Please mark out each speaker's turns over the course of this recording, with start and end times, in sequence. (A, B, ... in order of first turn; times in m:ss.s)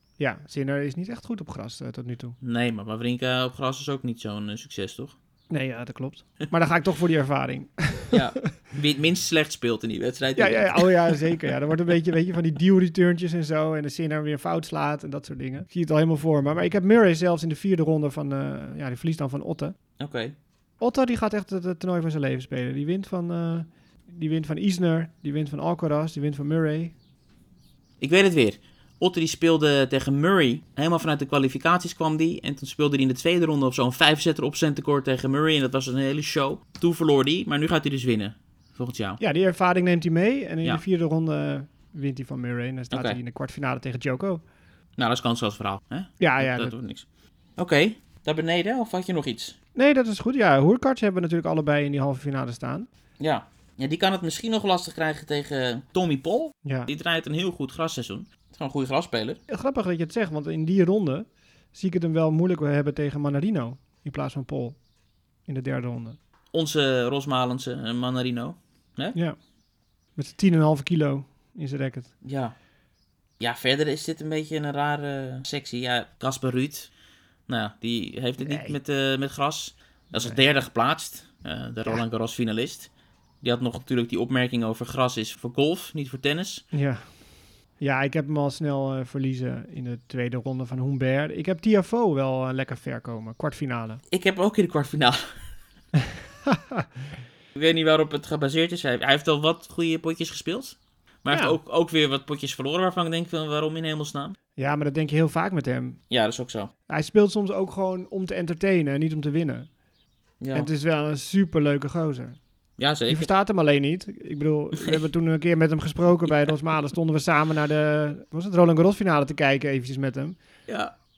0:00.2-0:02.4 A
0:02.4-0:05.2 B
0:05.5-0:08.2 A
0:08.1-0:11.3 B
0:10.4-0:19.8 A
0:20.0-0:20.3 B
0:20.8-0:27.0 A
0:28.0-0:39.2 B
0:39.2-0:44.4 A
0:42.9-0:43.2 B
0:45.0-0:47.1 B
0:46.2-0:46.8 A
0:47.6-0:49.6 B
0:49.8-0:52.9 A
0:53.2-0:59.4 B
0:56.6-0:56.9 A
0:59.5-1:04.8 A
1:05.5-1:06.2 A
1:06.5-1:09.2 B
1:10.2-1:12.1 A
1:12.2-1:12.6 B
1:13.4-1:16.9 B
1:17.5-1:22.9 B
1:18.4-1:18.8 A
1:23.4-1:26.6 B
1:26.7-1:27.2 A
1:27.8-1:34.0 A
1:34.1-1:35.4 B
1:36.5-1:36.8 A
1:37.5-1:44.4 B
1:41.3-1:41.6 A
1:44.6-1:46.0 A
1:46.1-1:46.7 B
1:46.9-1:49.7 A
1:50.4-1:50.7 B
1:50.5-1:52.4 A
1:52.8-1:53.3 B
1:53.1-2:00.4 A
2:00.7-2:00.9 B